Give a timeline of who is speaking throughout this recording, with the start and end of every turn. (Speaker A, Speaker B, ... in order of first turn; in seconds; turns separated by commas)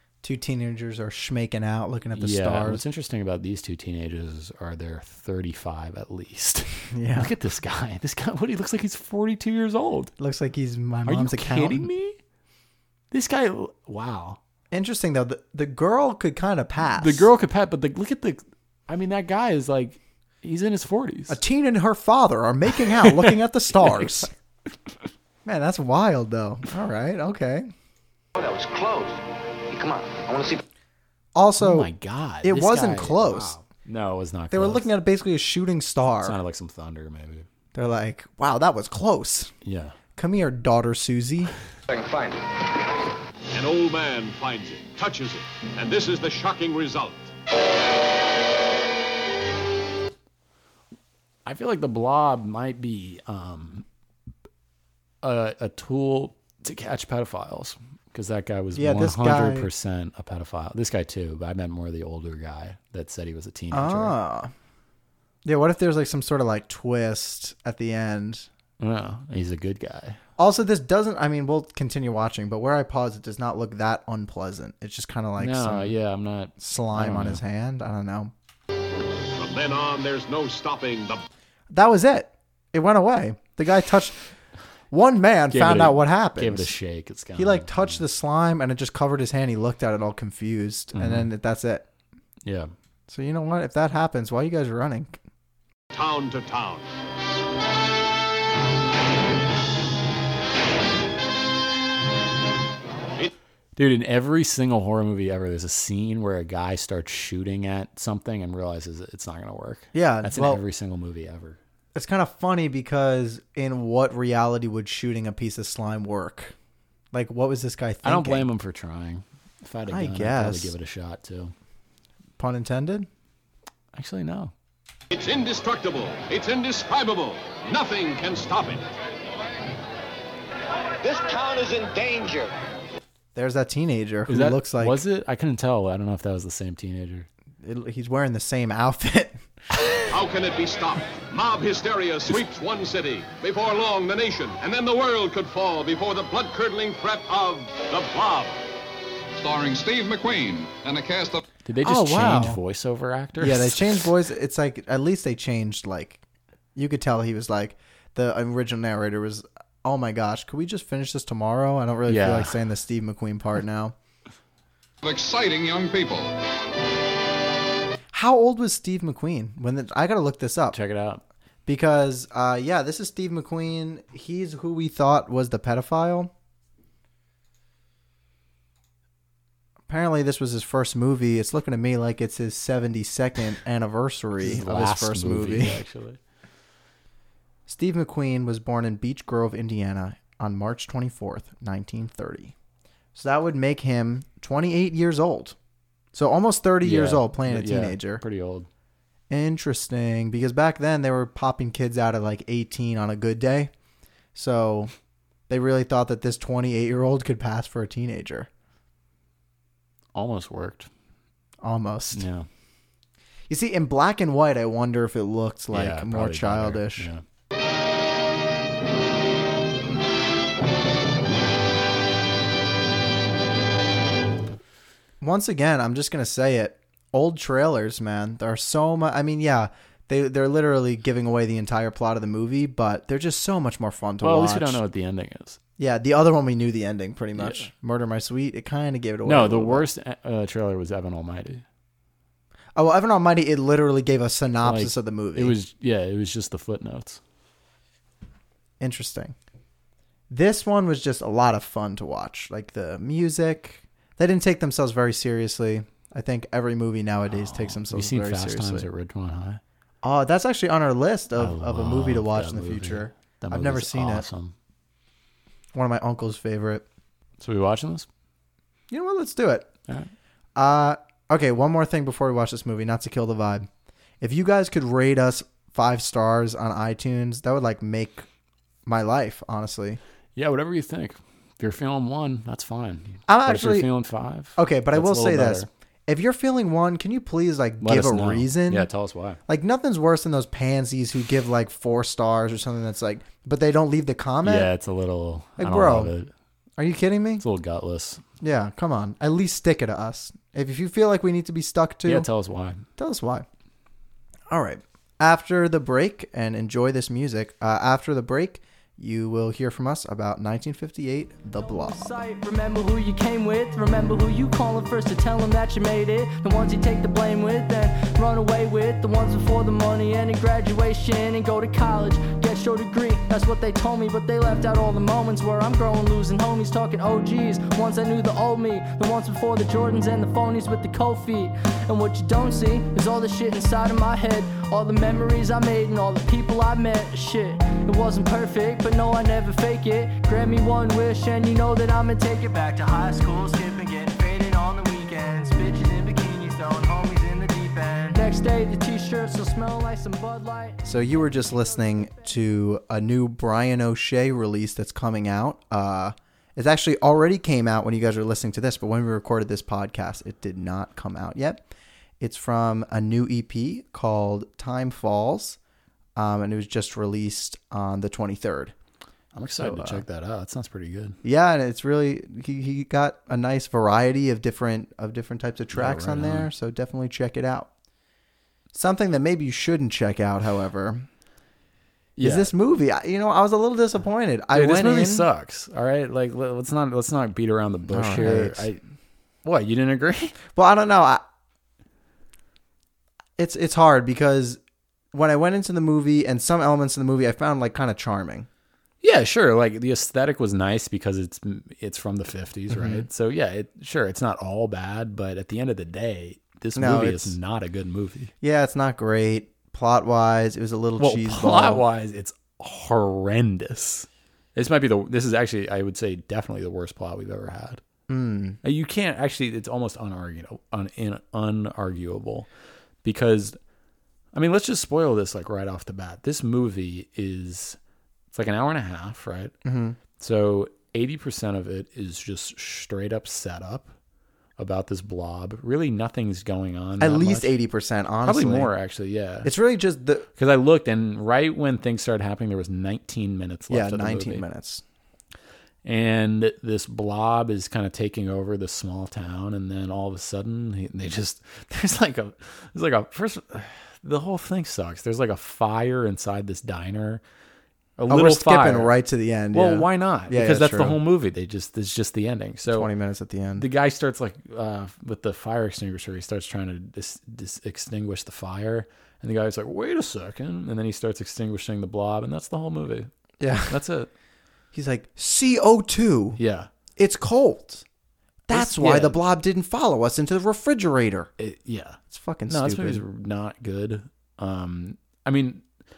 Speaker A: 0.2-2.8, Speaker B: 2.1-10.1, Speaker A: 6.9-7.3, Speaker A: 10.2-11.9, Speaker B: 11.1-12.2, Speaker B: 13.1-14.4, Speaker A: 14.7-17.3, Speaker B: 17.0-21.4, Speaker A: 21.3-24.3, Speaker B: 23.0-23.3, Speaker B: 23.8-24.1, Speaker A: 25.4-27.7, Speaker C: 28.3-30.6, Speaker A: 31.3-31.9, Speaker B: 31.6-34.9, Speaker A: 32.4-33.5, Speaker A: 34.5-36.4, Speaker B: 36.2-37.5, Speaker A: 37.7-39.5, Speaker B: 39.6-40.0, Speaker A: 40.1-41.5, Speaker C: 41.9-42.6, Speaker D: 43.5-47.3, Speaker B: 51.4-53.8, Speaker B: 55.2-64.2, Speaker A: 58.7-59.7, Speaker A: 63.7-64.5, Speaker A: 65.4-68.5, Speaker B: 68.8-70.2, Speaker A: 70.4-75.9, Speaker B: 75.4-77.4, Speaker A: 76.6-78.3, Speaker D: 79.3-81.2, Speaker A: 81.7-84.2, Speaker A: 84.9-86.7, Speaker B: 85.5-88.0, Speaker A: 87.3-91.9, Speaker B: 90.9-91.3, Speaker B: 92.4-92.7, Speaker A: 93.1-95.2, Speaker D: 95.9-96.9, Speaker B: 103.8-111.6, Speaker A: 109.9-110.6, Speaker A: 111.9-116.5, Speaker A: 117.1-118.5, Speaker B: 118.0-121.5, Speaker A: 119.9-120.7, Speaker A: 122.4-123.1, Speaker B: 123.9-124.5, Speaker D: 125.1-128.9, Speaker C: 131.0-132.5, Speaker A: 133.3-135.0, Speaker B: 134.3-137.3, Speaker A: 137.6-139.4, Speaker D: 140.1-148.6, Speaker E: 149.3-151.4, Speaker B: 151.6-154.1, Speaker A: 151.8-152.6, Speaker A: 153.4-156.2, Speaker A: 156.7-163.9, Speaker B: 162.1-162.6, Speaker E: 165.0-166.3, Speaker A: 168.1-170.8, Speaker B: 170.7-171.2, Speaker A: 171.7-176.3, Speaker A: 179.9-185.8, Speaker B: 184.4-186.2, Speaker A: 187.7-192.5, Speaker A: 193.1-195.6, Speaker A: 196.1-198.2, Speaker B: 196.8-198.7, Speaker A: 199.3-203.7, Speaker A: 204.3-204.9, Speaker A: 205.5-208.5, Speaker B: 210.1-210.9, Speaker A: 211.6-212.3, Speaker B: 212.1-212.5, Speaker A: 213.5-217.1, Speaker B: 215.7-217.2, Speaker A: 225.2-234.8, Speaker B: 234.2-235.6, Speaker A: 235.8-239.9, Speaker B: 237.4-237.7, Speaker B: 239.2-241.6, Speaker A: 242.8-245.5, Speaker B: 244.6-247.2, Speaker A: 248.8-249.3, Speaker A: 250.3-258.9, Speaker B: 257.3-259.6, Speaker A: 260.0-264.3, Speaker B: 261.4-264.5, Speaker A: 265.7-266.9, Speaker B: 267.4-268.1, Speaker A: 268.9-269.7, Speaker A: 270.6-273.7, Speaker A: 274.2-278.2, Speaker A: 278.9-280.0, Speaker B: 280.4-285.7, Speaker A: 283.3-283.9, Speaker A: 284.6-288.9, Speaker B: 287.8-289.4, Speaker A: 289.5-294.7, Speaker B: 294.4-296.3, Speaker A: 295.6-296.1, Speaker A: 296.8-297.4, Speaker B: 297.4-298.2, Speaker A: 298.4-302.3, Speaker B: 302.1-302.9, Speaker A: 303.0-303.4, Speaker A: 304.5-312.2, Speaker F: 311.6-350.8, Speaker A: 350.8-361.6, Speaker F: 351.7-352.2, Speaker A: 362.2-365.6, Speaker A: 366.1-368.7, Speaker B: 369.3-371.2, Speaker A: 369.6-370.0, Speaker A: 371.2-377.7, Speaker B: 375.7-376.5, Speaker A: 378.7-381.1, Speaker B: 382.2-382.5, Speaker A: 382.2-385.2, Speaker B: 384.5-388.8, Speaker A: 387.9-388.7, Speaker B: 389.4-390.4, Speaker A: 390.5-391.2, Speaker A: 393.4-394.6, Speaker A: 395.1-398.5, Speaker B: 399.0-408.3, Speaker A: 402.7-403.1, Speaker A: 406.8-407.4, Speaker A: 408.4-411.8, Speaker B: 411.0-417.8, Speaker A: 418.1-418.6, Speaker B: 418.6-422.5, Speaker B: 423.0-423.6, Speaker B: 424.3-427.8, Speaker B: 428.3-429.5, Speaker A: 429.6-430.0, Speaker B: 430.2-433.9, Speaker B: 434.6-437.5, Speaker A: 437.0-438.7, Speaker B: 438.2-439.5, Speaker A: 439.4-440.3, Speaker B: 440.4-444.4, Speaker A: 443.7-444.8, Speaker B: 445.8-457.2, Speaker B: 458.0-458.9, Speaker A: 458.1-461.0, Speaker B: 459.5-462.9, Speaker A: 462.7-463.7, Speaker B: 463.6-473.1, Speaker A: 473.4-473.8, Speaker B: 473.7-474.1, Speaker A: 474.7-476.4, Speaker B: 476.4-476.7, Speaker A: 476.9-477.8, Speaker A: 478.5-481.3, Speaker B: 478.5-479.2, Speaker B: 481.4-485.6, Speaker A: 482.1-483.0